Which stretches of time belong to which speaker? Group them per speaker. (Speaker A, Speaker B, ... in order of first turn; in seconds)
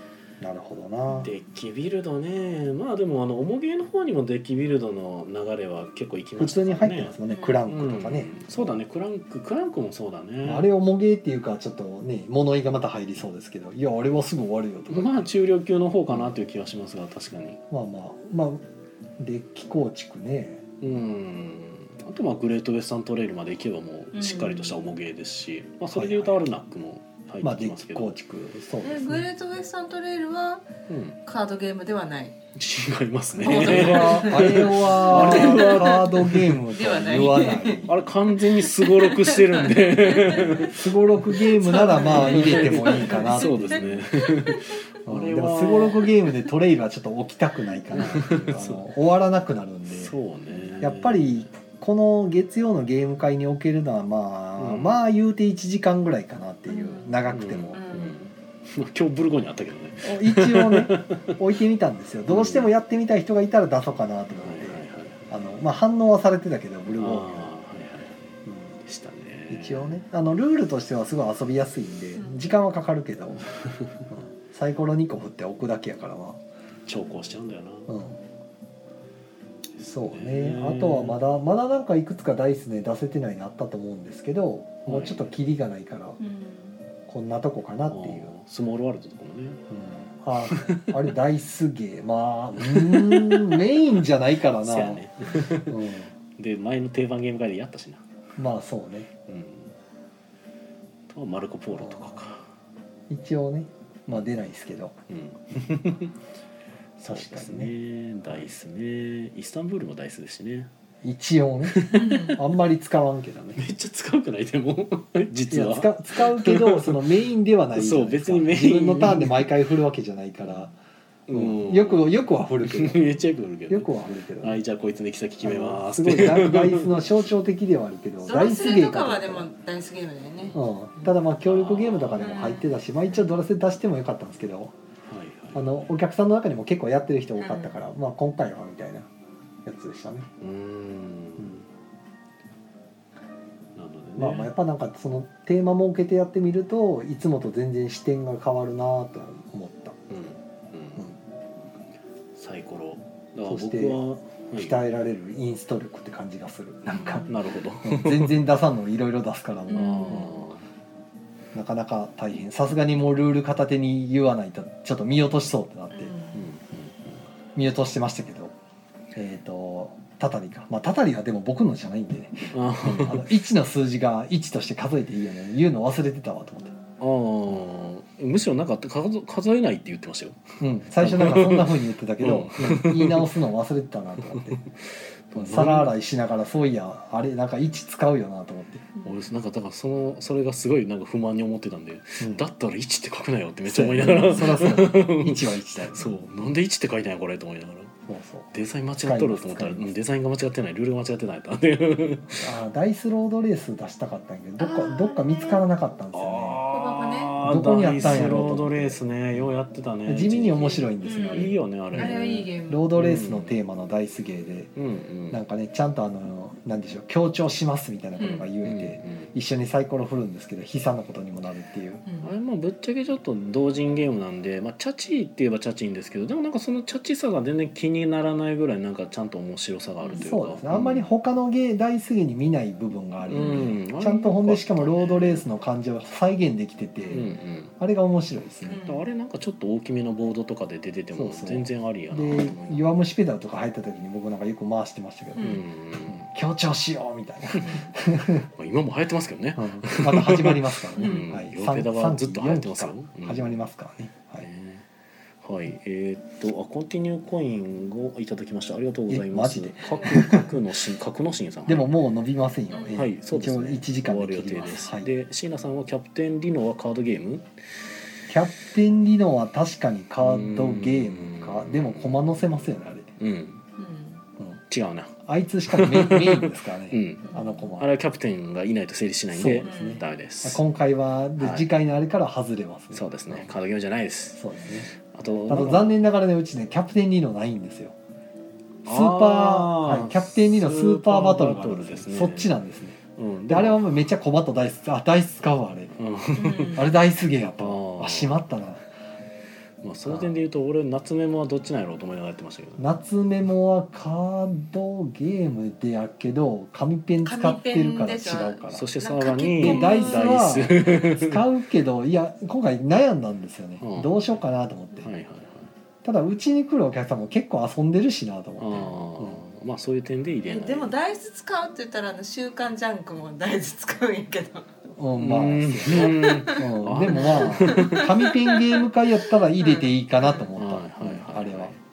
Speaker A: 0.4-1.3, 6.4-8.8, 10.4-15.3, 17.7-18.6, 19.2-20.6, 25.9-26.4, 27.4-29.3, 33.4-38.0, 40.4-44.0, 45.0-50.1, 50.8-57.8, 60.0-67.5, 68.5-68.8, 69.5-73.5, 74.1-76.4, 77.9-78.2, 79.9-86.2, 87.1-88.3, 89.7-96.1, 98.4-99.1, 101.8-102.2, 103.1-105.0, 107.0-107.7, 111.0-113.6, 115.5-120.7, 121.3-123.0, 123.7-124.6, 125.4-129.5, 130.6-134.7, 135.5-139.1, 139.6-140.3, 144.2-150.0, 153.4-157.3, 157.8-160.3, 161.5-166.1, 167.6-168.5, 169.1-176.7, 180.6-184.6, 185.3-188.8, 192.2-192.4, 193.7-196.1, 198.1-199.9, 202.4-206.6, 207.4-209.0, 210.1-214.7, 215.3-222.0, 230.2-238.8, 241.1-245.5, 246.1-248.5, 249.6-254.5, 259.1-260.5, 261.7-265.1, 268.3-273.1, 275.3-277.9, 279.3-283.5, 284.4-284.9, 285.5-287.9, 288.9-295.9, 296.7-298.8, 300.1-300.3, 302.8-308.9, 309.6-315.1, 316.0-319.4, 324.9-331.7
Speaker B: 1.2-10.7, 14.9-17.6, 20.8-28.1, 30.9-31.2, 32.5-36.5, 37.8-40.8, 41.4-46.2, 47.9-48.8, 49.9-51.5, 54.6-55.0, 57.3-61.4, 62.3-62.7, 64.4-65.2, 67.0-70.0, 73.5-74.0, 76.9-77.9, 79.8-81.2, 84.8-85.3, 87.9-89.6, 90.4-91.0, 92.6-93.6, 94.5-98.2, 99.3-99.7, 101.1-102.5, 105.1-106.1, 107.0-110.7, 111.7-112.4, 113.5-117.1, 117.7-119.5, 121.3-122.1, 122.6-127.1, 131.4-132.4, 135.1-135.7, 140.4-141.6, 143.8-144.5, 150.1-151.1, 152.3-154.8, 157.3-158.4, 159.7-160.6, 166.3-167.2, 172.5-173.3, 177.0-183.3, 184.3-185.9, 189.0-197.9, 198.5-202.5, 206.1-213.6, 214.8-215.4, 218.6-219.3, 222.2-231.1, 233.3-235.5, 237.1-237.7, 238.8-242.9, 245.4-246.3, 248.5-253.6, 254.4-254.9, 255.4-261.9, 262.9-267.5, 270.2-272.6, 273.2-273.6, 274.7-280.6, 281.4-281.7, 282.9-286.0, 288.9-292.5, 293.1-293.8, 296.0-296.8, 297.6-298.4, 299.8-302.9, 308.7-311.4, 313.8-314.4, 315.0-315.7, 318.6-320.9, 325.2-328.1, 330.6-331.8
Speaker C: 7.3-7.6, 24.1-24.9, 28.8-30.7, 31.2-32.4, 33.4-37.9, 38.6-40.7, 41.5-44.7, 56.7-57.2, 57.7-58.3, 72.2-72.5, 86.2-86.8, 111.9-112.4, 128.2-131.1, 132.2-133.1, 137.4-137.7, 157.0-157.3, 159.7-160.4, 165.9-166.5, 204.6-205.6, 206.7-207.4, 211.0-212.8, 218.2-218.5, 222.1-222.3, 230.0-230.3, 233.3-233.7, 237.0-237.3, 238.7-239.1, 245.4-245.6, 247.6-247.9, 251.0-251.3, 259.9-260.5, 262.7-263.1, 273.8-274.2, 277.3-277.6, 279.6-280.0, 296.4-296.9, 307.2-311.0, 320.4-324.7, 325.9-328.9, 329.6-329.9